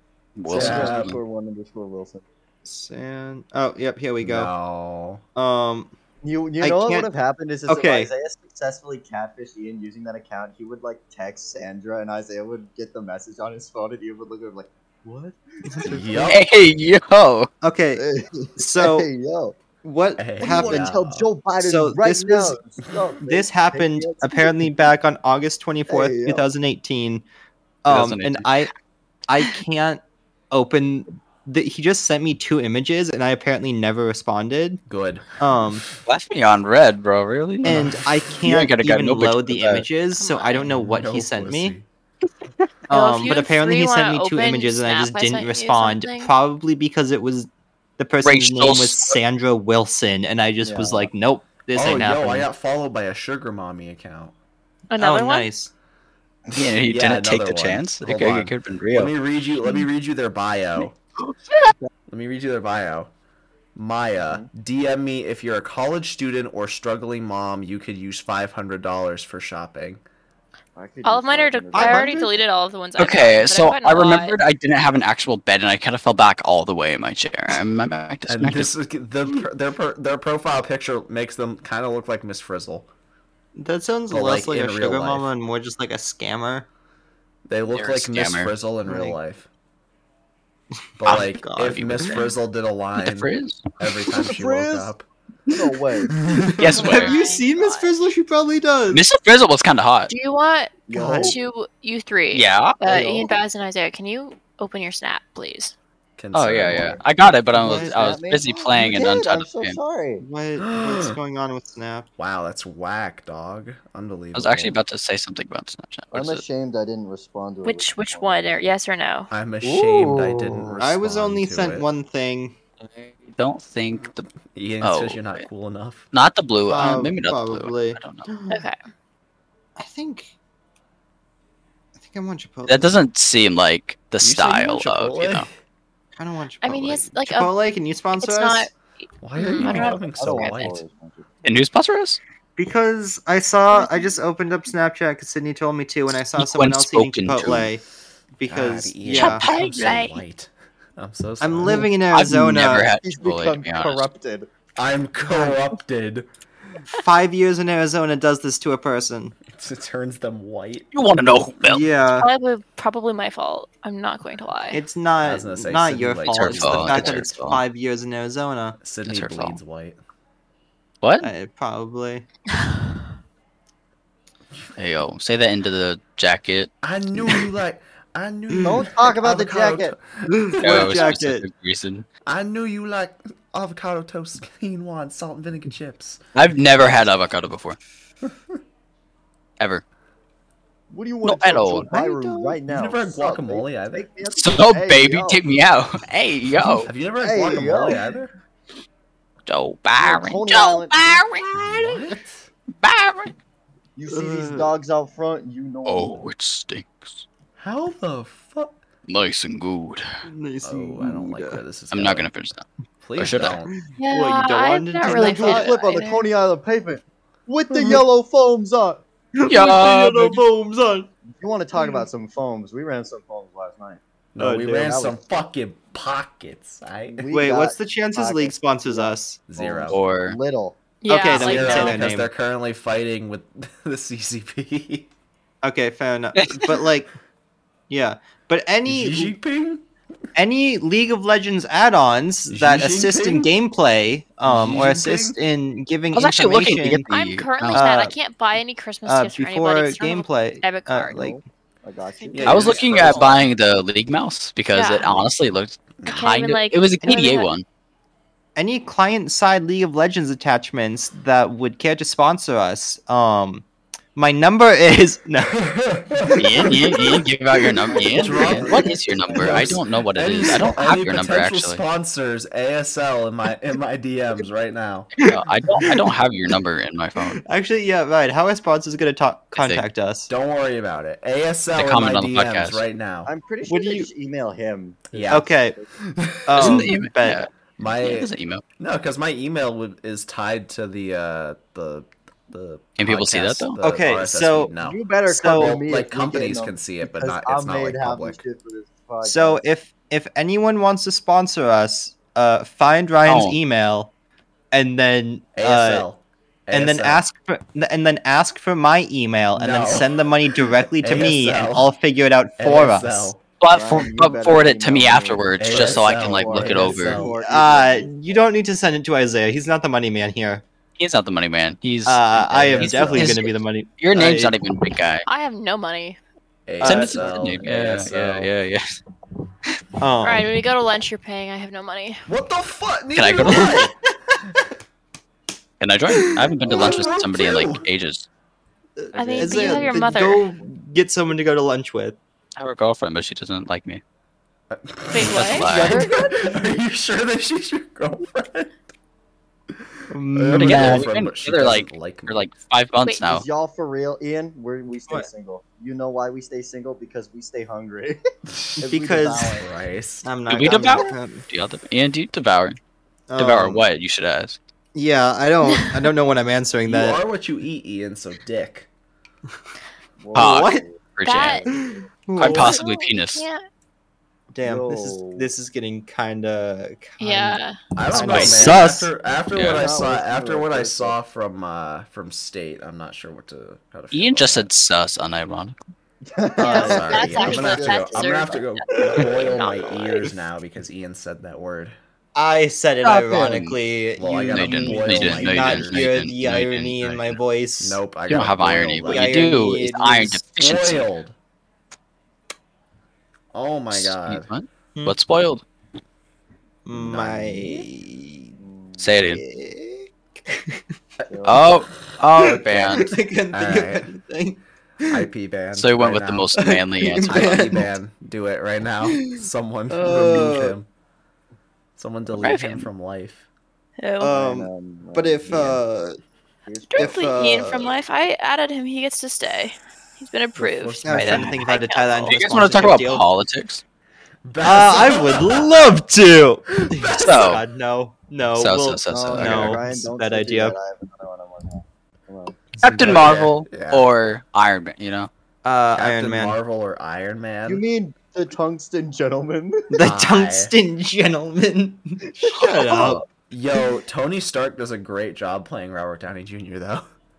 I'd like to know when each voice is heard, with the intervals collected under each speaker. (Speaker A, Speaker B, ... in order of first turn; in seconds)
Speaker A: 0.4-1.2, 16.3-17.5, 27.9-28.7, 36.0-39.9, 48.2-49.2, 56.5-59.1, 73.0-78.7, 87.7-88.5, 91.7-92.2, 93.0-93.7, 96.6-97.1, 98.9-100.1, 102.3-102.8, 106.3-109.8, 114.3-116.4, 122.8-124.3, 124.8-125.4, 126.1-128.3, 132.7-135.5, 141.4-142.2, 146.4-147.7, 149.1-150.1, 152.1-154.0, 160.9-161.8, 166.3-167.6, 169.1-169.6, 171.0-171.3, 174.8-176.7, 180.6-182.1, 186.3-187.8, 191.2-191.9, 194.3-196.9, 199.4-202.0, 202.8-203.3, 205.8-207.2, 209.1-210.0, 211.9-212.6, 213.2-213.6, 219.5-220.4, 229.9-230.4, 236.3-236.8, 246.1-247.8, 252.4-257.6, 266.4-271.8, 275.2-277.4, 279.5-279.8, 281.7-282.8, 286.6-288.6, 293.0-293.8, 303.2-303.6, 313.6-317.3, 321.0-325.2, 326.8-328.8, 333.1-333.9, 335.8-338.3, 342.6-344.0, 345.3-346.1, 350.5-353.4, 360.5-362.8, 363.4-364.6, 370.3-371.6, 372.4-373.4, 378.1-378.8, 379.5-379.9, 384.1-385.7, 393.0-393.8, 394.5-397.4, 398.3-401.1, 403.9-405.6, 409.0-409.4, 411.4-413.1, 415.7-417.7, 422.4-422.9, 432.3-433.8, 437.1-437.6, 438.5-439.9, 442.8-445.3
Speaker B: 0.5-2.2, 6.2-16.4, 18.0-19.6, 20.4-24.6, 25.9-26.4, 50.6-51.1, 64.2-64.5, 70.8-72.2, 94.2-94.9, 95.5-96.2, 100.9-101.4, 102.8-103.3, 107.5-110.2, 116.1-118.7, 139.6-141.3, 153.0-154.5, 178.6-179.9, 190.9-195.4, 197.2-198.0, 200.0-201.2, 203.9-206.2, 215.0-219.0, 221.3-224.0, 224.8-225.2, 227.1-230.8, 251.1-253.2, 267.9-269.8, 283.2-285.9, 294.8-299.6, 313.7-318.4, 327.2-327.6, 339.1-340.7, 345.7-346.3, 353.3-358.2, 358.8-359.7, 370.2-372.0, 374.6-375.5, 379.6-381.1, 386.3-388.3, 408.6-409.1, 411.3-411.7, 424.3-425.8, 426.7-427.5, 439.1-442.7, 447.6-450.0
Speaker C: 0.5-1.1, 4.2-5.2, 15.8-16.4, 20.2-21.3, 34.9-35.3, 37.6-38.0, 40.6-41.9, 51.7-54.3, 56.6-61.0, 62.1-63.1, 63.7-70.0, 78.3-82.9, 84.1-85.3, 87.5-89.5, 91.0-95.0, 96.2-96.7, 106.2-107.0, 110.6-111.2, 112.2-114.8, 119.3-121.9, 124.5-126.1, 134.2-135.5, 139.2-140.8, 148.4-151.9, 154.8-156.3, 159.5-160.9, 165.2-167.2, 168.8-170.0, 176.8-181.1, 182.2-186.2, 191.9-194.1, 196.8-198.3, 201.5-202.4, 207.6-208.8, 210.6-212.3, 213.0-213.7, 224.3-227.3, 229.5-230.0, 231.3-235.1, 238.8-239.8, 242.5-243.5, 244.4-245.4, 252.3-253.5, 256.0-256.3, 265.5-267.0, 268.0-275.1, 280.3-283.3, 285.1-285.5, 286.1-286.9, 287.8-298.4, 305.6-307.2, 309.6-310.1, 311.0-311.9, 312.6-313.4, 315.6-317.4, 322.6-323.4, 326.7-328.5, 332.3-333.9, 336.6-337.9, 344.7-348.8, 350.3-352.5, 358.5-358.8, 359.6-360.3, 366.9-368.9, 377.9-384.7, 386.6-391.9, 394.2-396.0, 397.8-401.3, 403.5-404.4, 406.9-407.9, 412.7-414.1, 415.1-416.5, 417.2-420.9, 422.0-423.4, 430.6-431.6, 434.4-435.8, 436.8-437.5, 442.8-444.1, 445.9-447.8, 450.0-450.7, 452.9-457.0
Speaker D: 2.6-4.5, 5.3-5.9, 6.6-7.1, 7.7-8.1, 15.7-16.1, 17.6-18.0, 18.6-19.1, 19.8-20.9, 21.6-22.6, 23.2-27.2, 27.8-28.7, 29.3-34.8, 35.4-35.9, 37.6-41.7, 42.9-52.5, 55.0-55.7, 71.7-72.3, 83.5-86.7, 88.8-89.2, 91.0-92.2, 96.6-99.0, 100.9-101.4, 107.5-108.0, 110.2-112.1, 119.6-122.5, 126.7-128.6, 129.8-130.3, 132.0-133.0, 136.2-138.7, 142.6-147.8, 148.4-149.4, 151.4-152.9, 156.9-159.3, 161.6-162.3, 164.7-168.8, 171.2-172.2, 178.5-178.8, 180.3-181.4, 204.1-204.7, 210.3-211.6, 213.7-215.7, 217.7-218.0, 219.3-221.1, 224.4-224.9, 227.3-229.4, 231.1-232.3, 235.6-237.1, 237.9-239.3, 240.3-247.1, 247.7-248.1, 249.1-251.4, 257.0-257.3, 258.6-265.6, 266.3-267.1, 275.2-276.1, 277.2-280.3, 283.7-284.1, 285.3-285.8, 286.5-287.4, 293.8-294.7, 295.3-295.8, 299.2-304.1, 304.7-306.1, 306.7-313.3, 317.4-320.6, 322.0-324.6, 326.8-327.2, 330.0-330.5, 333.5-334.4, 336.1-336.5, 339.0-342.2, 350.1-351.1, 358.9-359.6, 360.2-361.4, 363.3-363.8, 364.9-367.2, 370.3-370.9, 371.7-372.8, 374.5-379.1, 386.6-387.1, 392.3-398.0, 399.0-400.4, 406.9-408.6, 409.2-410.8, 412.4-415.2, 416.6-417.9, 419.1-420.8, 424.2-426.2, 427.0-427.9, 431.0-433.3, 434.6-440.8, 445.6-446.6, 449.9-453.2
Speaker E: 40.1-40.7, 42.9-46.3, 54.9-55.5, 71.0-74.4, 96.7-98.0, 100.1-105.7, 117.6-119.3, 128.5-128.8, 136.6-137.5, 138.2-140.8, 143.7-144.1, 149.7-150.1, 162.2-164.8, 214.0-216.2, 231.0-232.0, 247.1-251.3, 252.2-252.6, 254.7-255.2, 256.1-257.5, 325.2-326.2, 330.2-332.3, 339.1-340.4, 345.1-345.7, 353.0-353.3, 371.2-371.6, 372.4-373.6, 377.2-377.8, 386.6-390.3, 424.0-424.3, 426.9-432.5